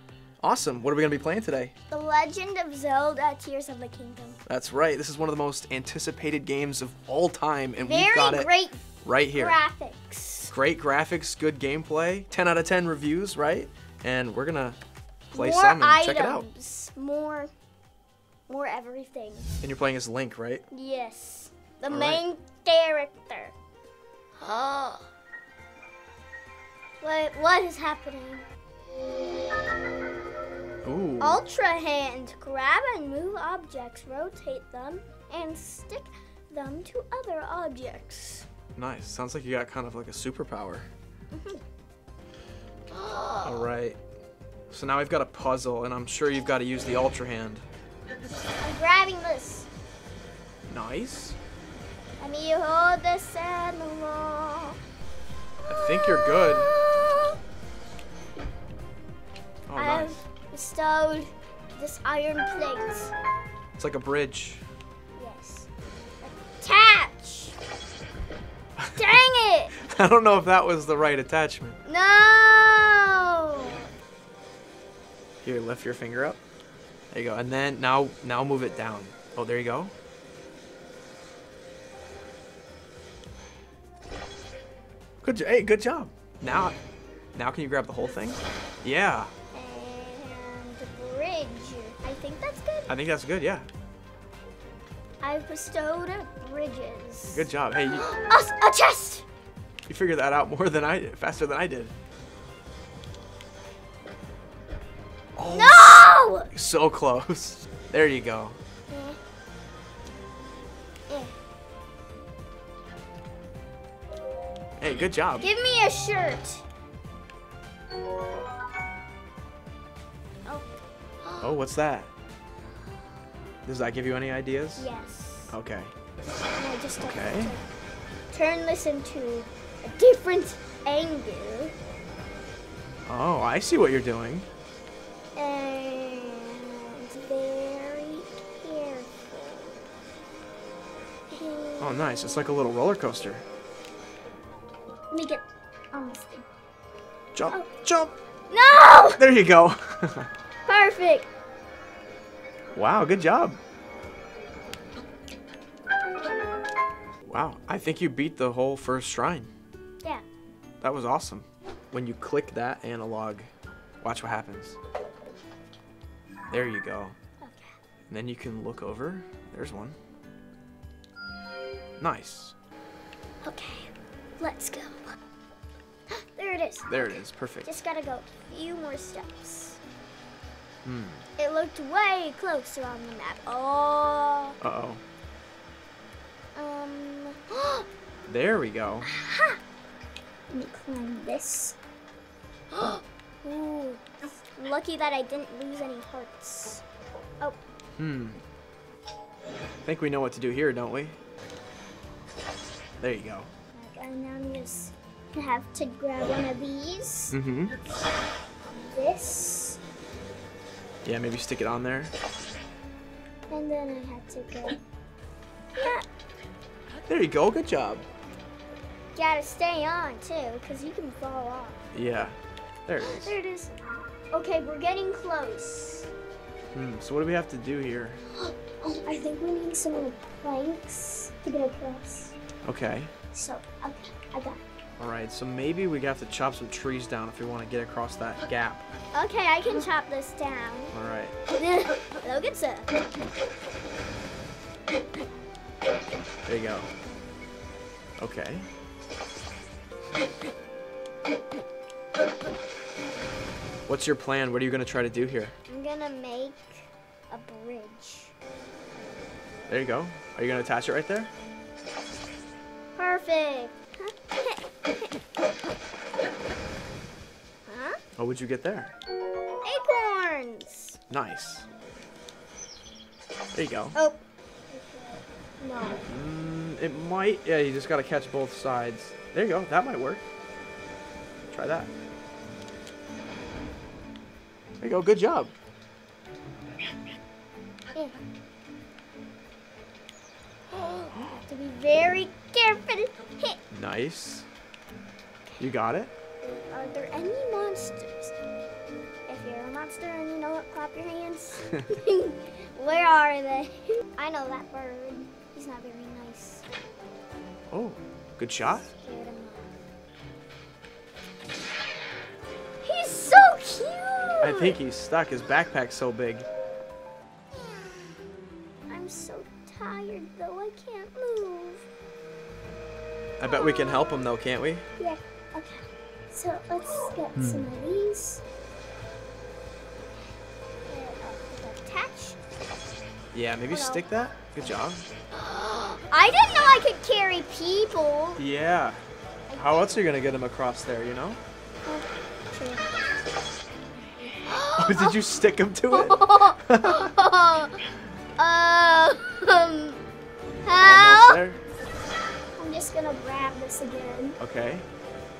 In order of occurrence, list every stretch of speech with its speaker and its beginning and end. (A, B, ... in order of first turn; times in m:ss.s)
0:00.4-0:01.7 A
0:01.9-0:04.4 B
0:04.4-0:08.5 A
0:07.8-0:08.8 B
0:09.0-0:09.6 A
0:09.3-0:10.5 B
0:10.5-0:14.8 A
0:15.3-0:16.5 A
0:15.3-0:17.5 B
0:18.5-0:19.5 B
0:19.6-0:20.6 A
0:20.7-0:23.5 B
0:21.9-0:22.2 A
0:24.4-0:25.0 B
0:27.0-0:28.4 B
0:30.8-0:31.4 A
0:31.2-0:38.4 B
0:38.7-0:40.9 A
0:41.3-0:41.6 B
0:42.9-0:43.7 B
0:43.4-0:44.0 A
0:44.7-0:47.6 A
0:48.6-0:49.7 B
0:50.7-0:51.4 A
0:52.2-0:54.8 B
0:55.7-0:56.7 A
0:55.7-0:57.4 B
0:59.7-1:00.2 A
0:59.7-1:03.1 B
1:03.8-1:04.6 A
1:05.2-1:05.7 B
1:06.2-1:07.6 B
1:08.8-1:09.1 A
1:08.9-1:09.7 B
1:09.8-1:11.8 A
1:11.8-1:13.9 B
1:15.4-1:16.4 A
1:17.1-1:19.9 A
1:25.2-1:26.8 A
1:27.3-1:29.3 A
1:29.5-1:33.0 B
1:32.9-1:33.7 A
1:35.2-1:39.2 B
1:37.3-1:38.0 A
1:39.9-1:41.9 A
1:45.4-1:48.6 A
1:45.5-1:46.5 B
1:48.9-1:49.2 B
1:51.1-1:51.3 B
1:54.8-1:55.4 A
1:55.4-1:56.6 B
2:01.2-2:01.5 B
2:01.4-2:02.1 A
2:03.6-2:04.9 A
2:04.8-2:05.6 B
2:05.5-2:05.9 A
2:06.5-2:07.6 B
2:07.0-2:07.5 A
2:08.3-2:11.7 B
2:13.1-2:14.5 A
2:15.3-2:19.8 B
2:21.3-2:22.0 B
2:21.8-2:23.4 A
2:25.1-2:26.5 B
2:27.3-2:28.1 A
2:28.5-2:29.2 B
2:29.2-2:30.3 A
2:30.6-2:31.3 B
2:32.7-2:33.6 A
2:37.2-2:39.5 A
2:40.8-2:43.5 A
2:44.0-2:44.8 A
2:46.5-2:47.2 A
2:47.4-2:47.7 B
2:48.1-2:50.0 A
2:52.0-2:52.5 A
2:53.4-2:55.2 B
2:56.1-2:59.8 B
2:56.9-2:57.7 A
3:00.8-3:01.2 A
3:01.4-3:04.6 B
3:04.6-3:05.0 A
3:06.5-3:07.8 B
3:08.3-3:09.1 A
3:09.0-3:09.6 B
3:10.5-3:11.8 B
3:12.7-3:16.8 B
3:18.0-3:18.4 A
3:19.8-3:21.2 A
3:23.0-3:23.5 A
3:23.7-3:27.4 B
3:27.3-3:27.8 A
3:28.7-3:29.8 B
3:31.0-3:32.1 A
3:33.5-3:34.8 B
3:35.7-3:36.0 B
3:37.1-3:38.0 A
3:39.1-3:41.8 B
3:41.9-3:43.3 A
3:43.0-3:43.7 B
3:44.3-3:46.1 B
3:46.7-3:48.2 A
3:48.3-3:52.3 B
3:52.6-3:53.1 A
3:53.3-3:54.6 B
3:55.0-3:58.8 A
3:59.1-4:00.9 B
4:00.9-4:01.3 A
4:01.5-4:02.9 B
4:06.4-4:06.9 A
4:08.2-4:08.7 A
4:13.9-4:15.5 A
4:15.7-4:18.3 B
4:19.7-4:21.3 A
4:23.0-4:25.1 B
4:27.6-4:28.0 B
4:28.2-4:28.9 A
4:29.6-4:31.0 B
4:31.1-4:31.6 A
4:33.5-4:33.9 A
4:33.9-4:36.0 B
4:36.0-4:40.2 A
4:41.5-4:41.9 A
4:44.8-4:45.5 A
4:50.7-4:53.6 B
4:53.7-4:54.5 A
4:55.6-4:56.1 A
4:56.4-4:58.3 B
4:59.3-5:06.6 B
5:07.7-5:08.8 A
5:08.8-5:09.7 B
5:12.8-5:14.8 B
5:14.4-5:16.5 A
5:18.9-5:21.9 B
5:23.4-5:24.8 A
5:23.4-5:24.1 B
5:25.0-5:28.4 B
5:27.4-5:27.6 A
5:30.8-5:32.4 B
5:33.3-5:35.1 A
5:33.7-5:34.0 B
5:35.3-5:38.4 B
5:38.4-5:39.0 A
5:39.5-5:39.9 B
5:39.6-5:41.4 A
5:41.8-5:42.8 B
5:44.4-5:45.1 B
5:44.8-5:47.1 A
5:45.9-5:47.8 B
5:48.4-5:50.0 B
5:50.6-5:51.4 B
5:50.8-5:51.6 A
5:52.5-5:54.4 B
5:54.4-5:54.9 A